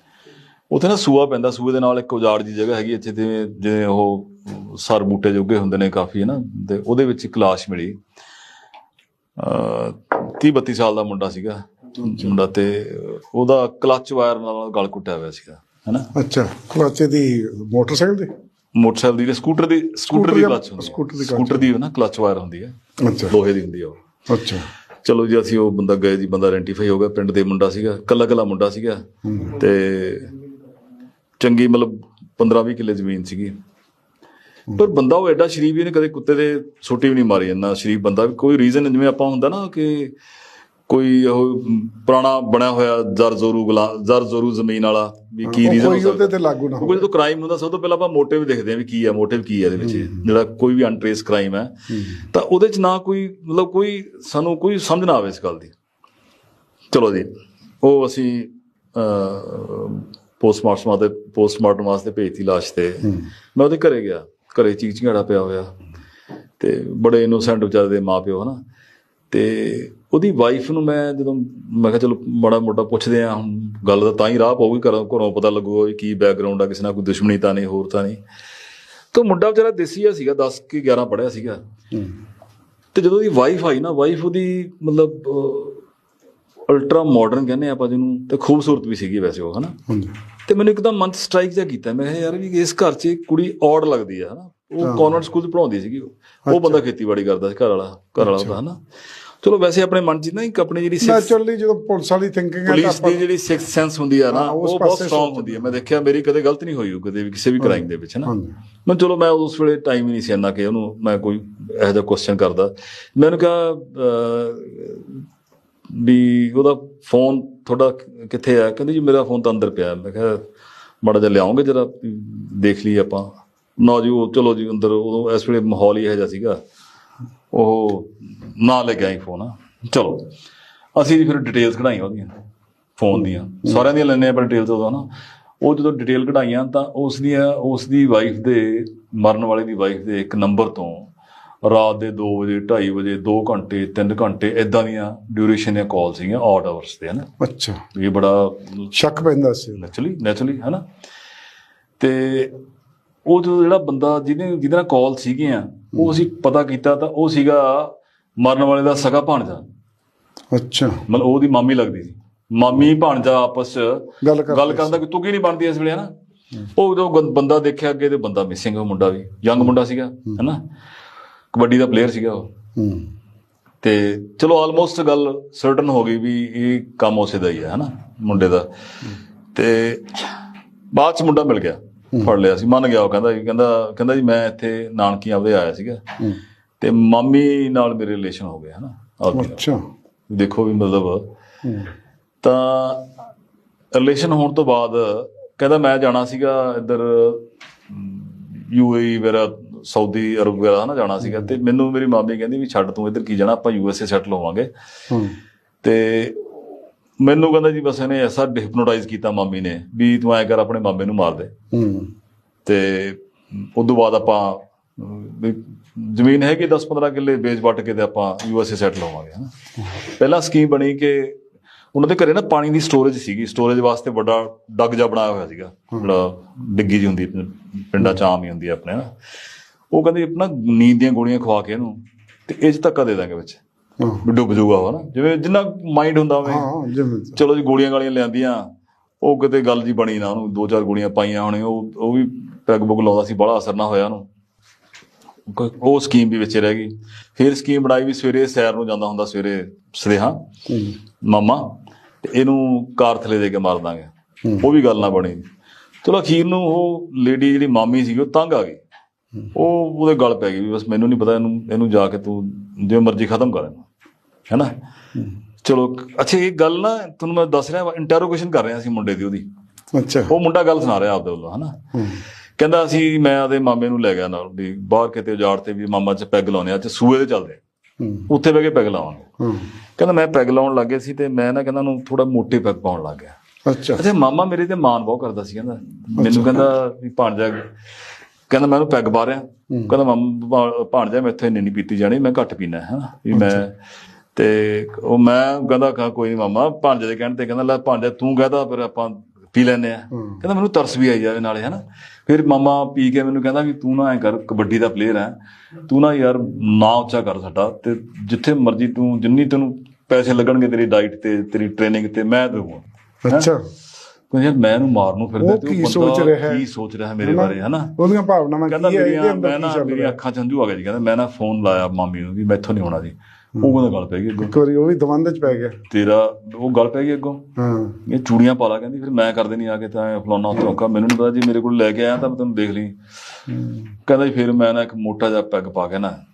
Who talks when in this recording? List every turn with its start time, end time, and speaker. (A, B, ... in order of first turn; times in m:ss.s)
0:00.7-0:08.0 A
0:09.4-0:16.1 A
0:12.0-0:12.3 B
0:16.1-0:18.3 B
0:18.7-0:22.7 A
0:20.1-0:21.7 B
0:23.0-0:23.3 B
0:23.3-0:24.0 A
0:24.3-0:24.7 B
0:25.0-0:30.4 A
0:29.2-0:29.6 B
0:31.4-0:33.5 A
0:34.7-0:40.1 A
0:40.9-0:55.7 A
0:45.4-0:47.0 B
0:49.8-0:50.2 B
0:51.9-0:52.2 B
0:56.9-0:57.3 A
0:57.8-1:05.7 A
1:06.6-1:08.6 A
1:09.3-1:18.2 A
1:19.1-1:21.6 A
1:22.9-1:25.8 A
1:26.7-1:29.8 A
1:29.9-1:30.1 B
1:30.4-1:38.8 A
1:34.8-1:35.1 B
1:36.5-1:36.8 B
1:38.2-1:38.5 B
1:39.4-1:41.3 A
1:41.0-1:43.2 B
1:42.7-1:48.3 A
1:44.3-1:45.8 B
1:48.2-1:48.5 B
1:48.8-1:55.2 A
1:55.9-2:00.4 A
2:01.0-2:06.6 A
2:07.5-2:10.3 A
2:10.9-2:12.3 A
2:13.0-2:15.1 A
2:15.6-2:21.1 A
2:21.6-2:27.3 A
2:27.4-2:27.8 B
2:27.9-2:28.9 A
2:28.9-2:29.8 B
2:29.8-2:30.8 A
2:32.0-2:32.6 A
2:33.2-2:39.6 A
2:40.5-2:41.0 B
2:41.1-2:46.1 A
2:44.2-2:45.0 B
2:46.7-2:50.6 A
2:51.5-2:52.5 A
2:52.8-2:53.1 B
2:53.8-2:58.7 A
2:59.5-3:00.3 A
3:00.9-3:06.0 A
3:06.8-3:09.6 A
3:09.3-3:09.8 B
3:10.3-3:11.2 A
3:11.6-3:11.9 B
3:12.4-3:13.1 A
3:13.9-3:24.7 A
3:25.1-3:25.4 B
3:25.8-3:26.5 A
3:27.2-3:31.5 A
3:31.7-3:32.1 B
3:32.6-3:39.5 A
3:40.0-3:41.4 A
3:41.9-3:49.1 A
3:49.9-3:52.0 A
3:52.5-3:53.6 A
3:54.2-3:56.7 A
3:56.4-3:57.4 B
3:57.4-3:58.7 A
3:59.2-4:04.2 A
4:05.5-4:10.4 A
4:10.7-4:11.0 B
4:11.2-4:11.7 A
4:12.2-4:15.4 A
4:16.0-4:18.8 A
4:19.5-4:23.9 A
4:25.6-4:29.4 A
4:29.9-4:30.3 B
4:30.3-4:31.8 A
4:31.9-4:32.2 B
4:32.6-4:37.6 A
4:38.0-4:38.3 B
4:38.3-4:39.3 A
4:39.4-4:39.7 B
4:40.0-4:43.3 A
4:43.6-4:44.0 B
4:43.9-4:47.7 A
4:46.2-4:46.6 B
4:48.5-4:53.8 A
4:53.3-4:53.6 B
4:54.3-5:05.4 A
5:05.9-5:13.5 A
5:13.2-5:13.6 B
5:14.3-5:18.0 A
5:15.4-5:16.6 B
5:17.2-5:20.2 B
5:18.7-5:24.5 A
5:24.4-5:25.8 B
5:25.9-5:27.4 A
5:27.6-5:28.0 B
5:28.0-5:32.9 A
5:33.5-5:33.8 B
5:34.0-5:36.2 A